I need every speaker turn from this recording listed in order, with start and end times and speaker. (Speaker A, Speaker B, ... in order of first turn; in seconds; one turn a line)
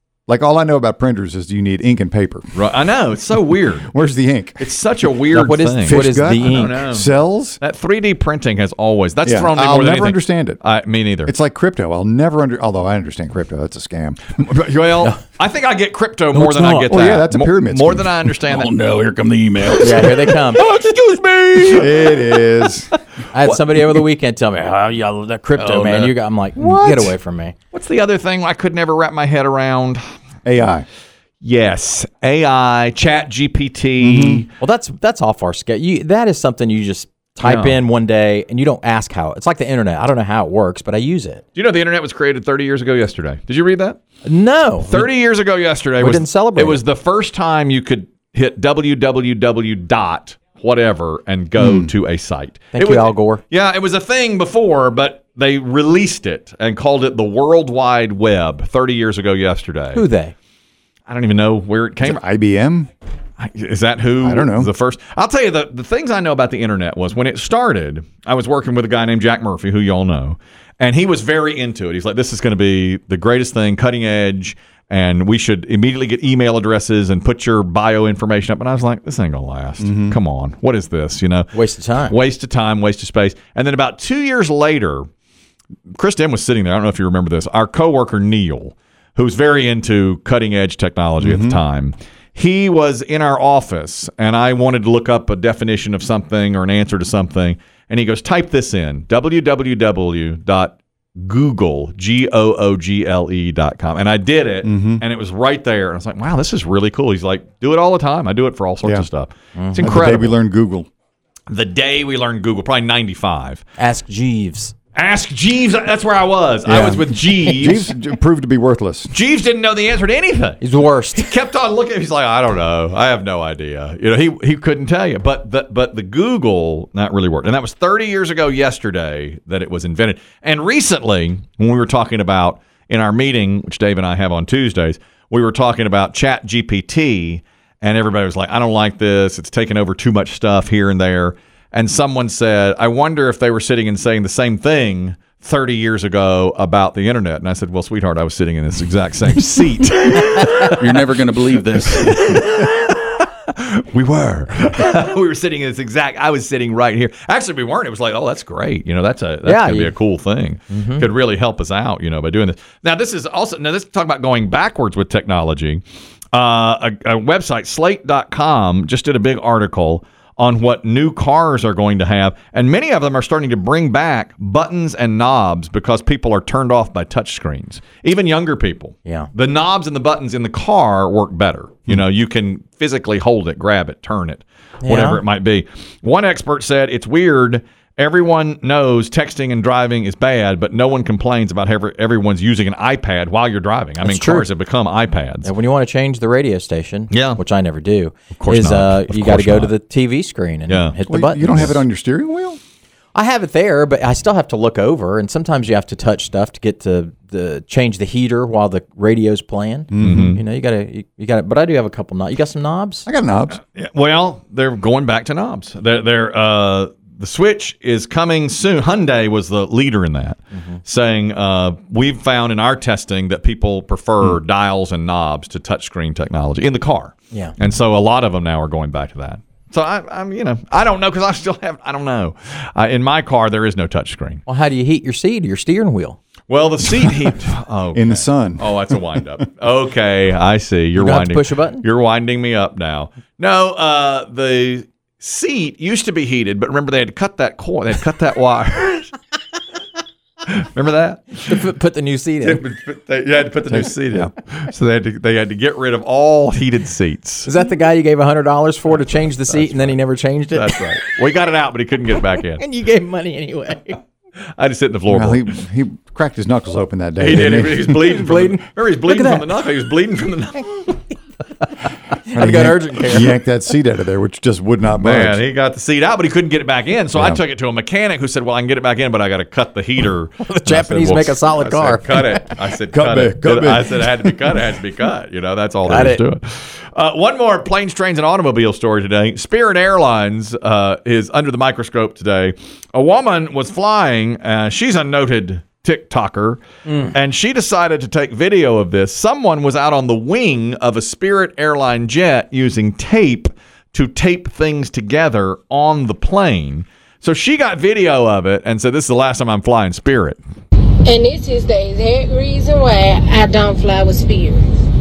Speaker A: 0.3-2.6
Speaker B: 2.5-4.1
Speaker A: 3.7-4.6
Speaker B: 4.6-11.3
Speaker C: 5.3-6.9
Speaker A: 5.8-7.6
Speaker A: 9.2-10.6
Speaker A: 11.3-14.3
Speaker B: 14.4-18.7
Speaker A: 16.3-18.3
Speaker D: 18.5-21.9
Speaker C: 19.8-20.6
Speaker B: 21.3-22.4
Speaker A: 21.7-22.9
Speaker C: 23.3-27.6
Speaker B: 23.4-24.0
Speaker D: 25.5-26.1
Speaker A: 26.6-27.1
Speaker B: 27.7-30.0
Speaker A: 30.4-30.9
Speaker B: 31.4-34.5
Speaker A: 34.0-34.5
Speaker C: 34.6-41.4
Speaker B: 37.4-37.8
Speaker B: 41.6-44.0
Speaker C: 44.2-45.1
Speaker B: 44.8-60.0
Speaker C: 46.0-46.8
Speaker A: 51.6-51.9
Speaker C: 52.7-53.4
Speaker C: 59.9-60.4
Speaker B: 61.1-62.2
Speaker A: 62.0-62.9
Speaker B: 63.4-81.5
Speaker A: 64.2-64.7
Speaker A: 79.8-80.2
Speaker C: 81.5-82.2
Speaker B: 82.0-85.1
Speaker B: 86.0-110.3
Speaker A: 91.2-91.6
Speaker A: 104.6-105.0
Speaker C: 109.6-109.9
Speaker A: 109.8-110.9
Speaker B: 111.5-113.6
Speaker C: 113.8-114.7
Speaker B: 115.0-117.9
Speaker A: 116.7-119.1
Speaker B: 119.1-120.6
Speaker C: 120.6-121.4
Speaker B: 121.2-150.8
Speaker D: 150.8-152.2
Speaker B: 152.0-195.5
Speaker C: 159.4-159.9
Speaker C: 160.7-161.1
Speaker C: 184.8-185.2
Speaker C: 194.0-194.5
Speaker C: 195.4-201.8
Speaker B: 197.1-197.4
Speaker B: 198.3-199.7
Speaker B: 200.7-201.8
Speaker A: 201.1-202.6
Speaker C: 203.1-213.1
Speaker A: 209.9-210.4
Speaker B: 210.0-210.4
Speaker A: 213.1-213.6
Speaker B: 213.5-234.4
Speaker C: 220.5-220.8
Speaker C: 234.5-236.2
Speaker B: 236.5-249.2
Speaker A: 237.9-239.4
Speaker C: 240.9-241.8
Speaker B: 250.5-251.7
Speaker C: 251.5-252.6
Speaker B: 252.4-257.5
Speaker C: 257.4-261.0
Speaker B: 259.1-260.0
Speaker B: 260.5-262.6
Speaker C: 262.6-264.0
Speaker B: 264.6-265.5
Speaker A: 265.1-268.2
Speaker B: 267.2-271.0
Speaker C: 267.9-269.5
Speaker C: 272.3-273.4
Speaker A: 272.3-275.4
Speaker B: 275.0-310.4
Speaker C: 280.5-282.5
Speaker A: 282.9-284.3
Speaker C: 285.9-286.2
Speaker C: 296.9-297.1
Speaker E: 311.1-314.7